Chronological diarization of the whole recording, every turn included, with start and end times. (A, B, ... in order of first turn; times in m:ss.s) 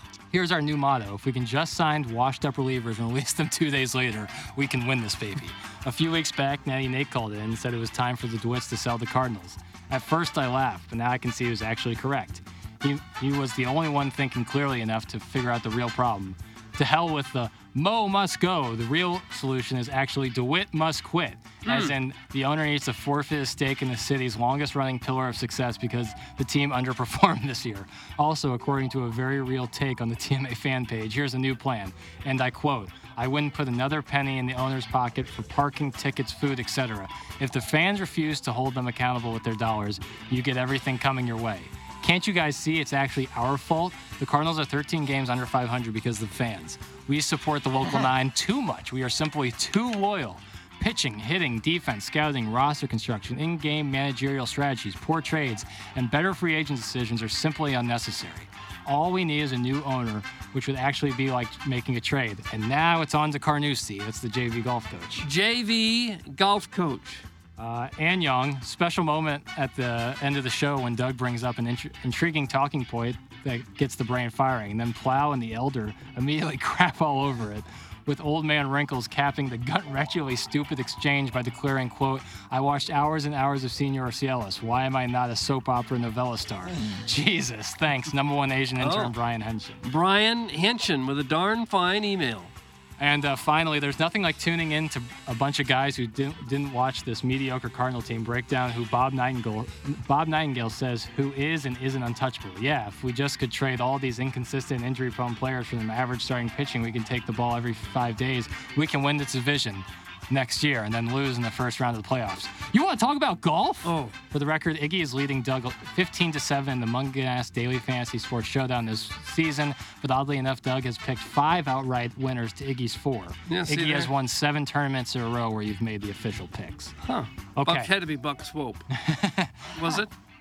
0:00.3-1:05.3 A
0:21.6-0:21.9 B
1:05.2-1:07.2 B
1:07.6-1:29.8 A
1:28.8-1:29.1 B
1:29.8-1:32.5 B
1:33.0-2:07.0 A
1:53.8-1:54.2 B
2:03.5-2:04.1 B
2:07.0-2:08.9 B
2:07.6-2:07.9 A
2:08.9-2:10.0 A
2:09.7-2:10.1 B